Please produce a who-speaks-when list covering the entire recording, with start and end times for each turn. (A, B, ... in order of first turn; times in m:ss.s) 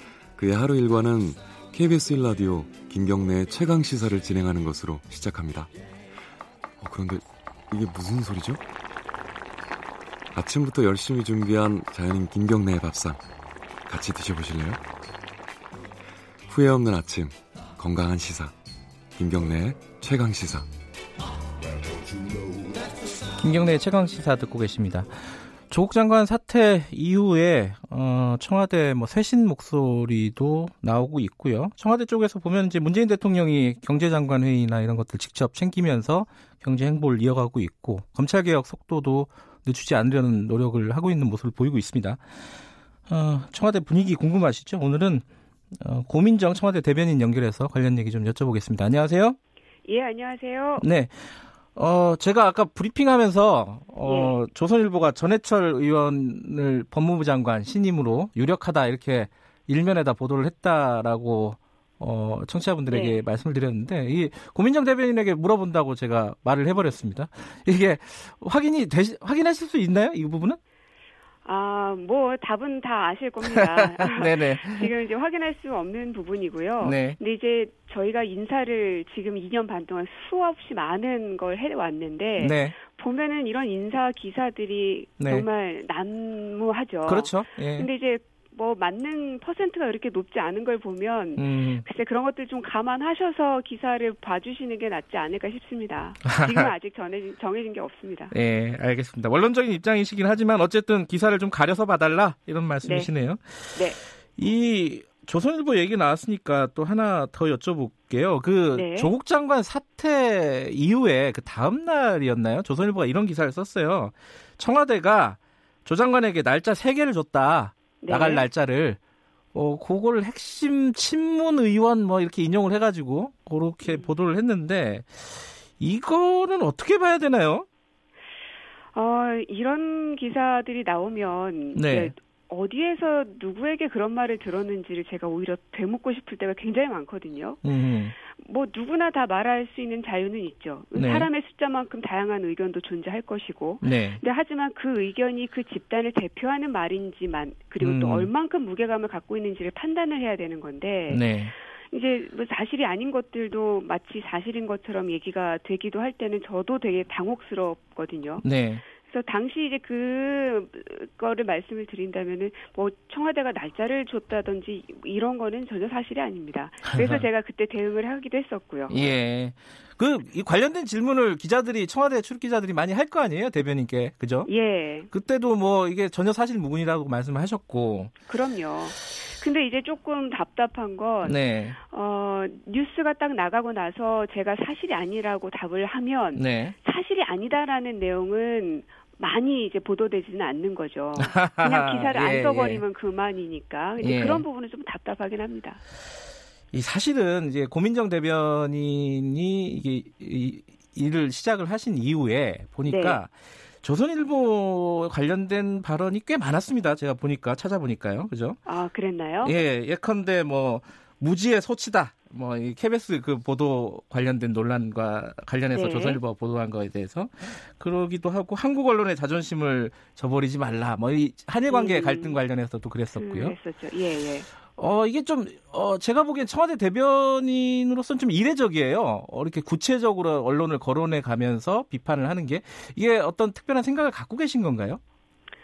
0:00.4-0:05.7 A
0:06.8-0:08.6 A
0:10.3-0:13.2 A
0:13.9-0:14.8 A
0:16.5-0:18.5 A
0:19.2-0:20.7 A
0:23.3-0:42.2 B
0:43.1-0:45.2 B
0:45.8-0:49.4 B
0:49.8-0:50.8 C
0:50.8-1:10.6 B
0:54.0-0:54.4 C
1:02.9-1:03.2 C
1:11.4-1:38.3 C
1:13.4-1:14.9 B
1:16.8-1:17.2 B
1:22.4-1:22.8 B
1:25.2-1:25.5 B
1:27.0-1:27.9 B
1:31.4-1:31.8 B
1:36.2-1:36.7 B
1:38.3-1:59.0 B
1:42.8-1:43.1 C
1:48.7-1:49.1 C
1:58.0-1:58.4 C
1:59.5-2:07.6 B
2:08.9-2:17.6 C
2:11.7-2:12.1 B
2:17.6-2:18.1 B
2:18.2-2:49.0 C
2:20.9-2:21.3 B
2:23.8-2:24.2 B
2:27.8-2:28.3 B
2:31.1-2:31.5 B
2:38.4-2:38.8 B
2:46.8-2:47.2 B
2:48.9-2:54.5 B
2:54.4-2:55.1 C
2:55.1-2:58.1 B
2:58.3-3:15.8 C
3:01.2-3:01.8 B
3:06.3-3:06.7 B
3:11.2-3:12.8 B
3:14.0-3:14.4 B
3:16.7-3:28.6 B
3:22.8-3:23.2 C
3:28.6-3:29.5 C
3:29.4-3:43.5 B
3:35.7-3:36.2 C
3:41.7-3:42.4 C
3:43.1-3:44.5 C
3:44.8-3:55.0 B